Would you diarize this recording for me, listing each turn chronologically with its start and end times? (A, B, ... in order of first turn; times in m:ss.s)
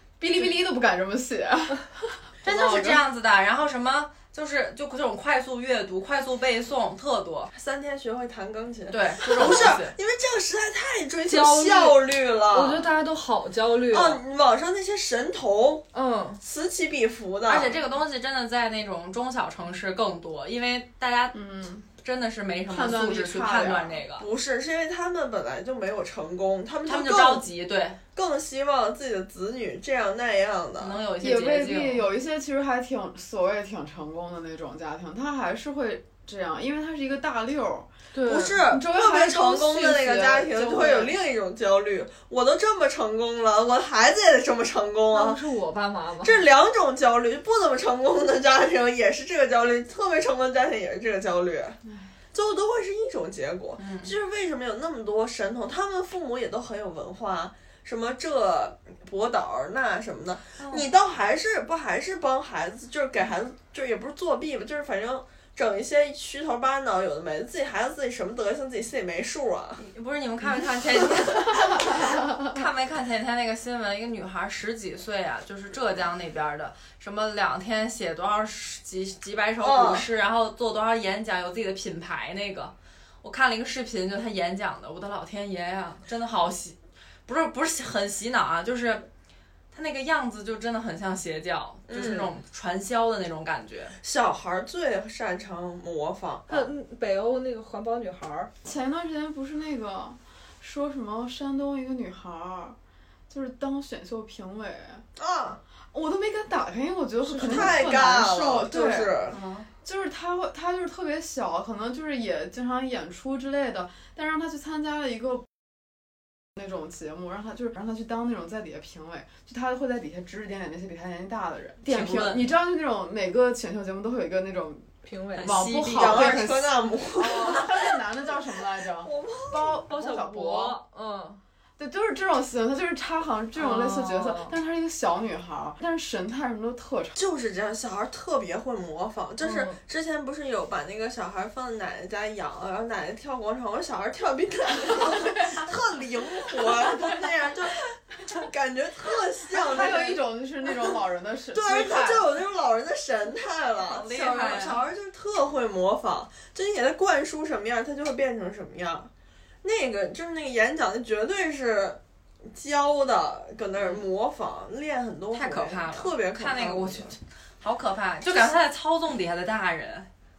0:00.2-0:03.0 A
0:02.4-0:07.5 B
0:07.5-0:12.9 C
0:08.9-0:09.9 B
0:11.2-0:12.0 D
0:12.5-0:14.2 D
0:13.9-0:15.8 C
0:15.9-0:16.4 D
0:16.4-0:17.8 C
0:17.5-0:21.4 B
0:21.3-0:21.9 A
0:21.9-0:24.3 B
0:22.7-0:24.0 A
0:24.2-0:27.4 C
0:26.8-0:28.0 B
0:28.1-0:31.0 C
0:30.8-0:32.0 B
0:31.2-0:37.9 A
0:38.1-0:38.6 D
0:38.2-0:45.4 C
0:38.6-0:41.1 A
0:45.1-0:46.4 D
0:46.2-0:51.8 C
0:52.3-1:09.8 C
0:53.8-0:54.1 B
1:00.6-1:00.9 B
1:09.8-1:29.1 B
1:19.6-1:20.1 C
1:29.7-1:33.9 B
1:31.9-1:32.3 C
1:34.0-1:36.7 C
1:36.5-1:38.5 D
1:38.6-1:42.8 A
1:43.3-1:45.0 A
1:45.2-1:45.6 C
1:45.9-1:55.5 A
1:47.2-1:47.8 D
1:47.4-1:49.4 C
1:49.4-1:49.6 B
1:56.6-2:10.8 A
2:01.8-2:02.5 B
2:05.0-2:05.6 D
2:05.4-2:06.5 B
2:05.9-2:07.9 C
2:09.0-2:09.8 C
2:09.9-2:11.4 D
2:11.8-2:17.2 A
2:13.5-2:14.5 D
2:17.1-2:30.2 C
2:19.4-2:19.8 D
2:29.5-2:32.3 A
2:31.5-2:39.1 C
2:33.8-2:34.8 B
2:39.6-2:47.2 C
2:45.3-2:50.1 B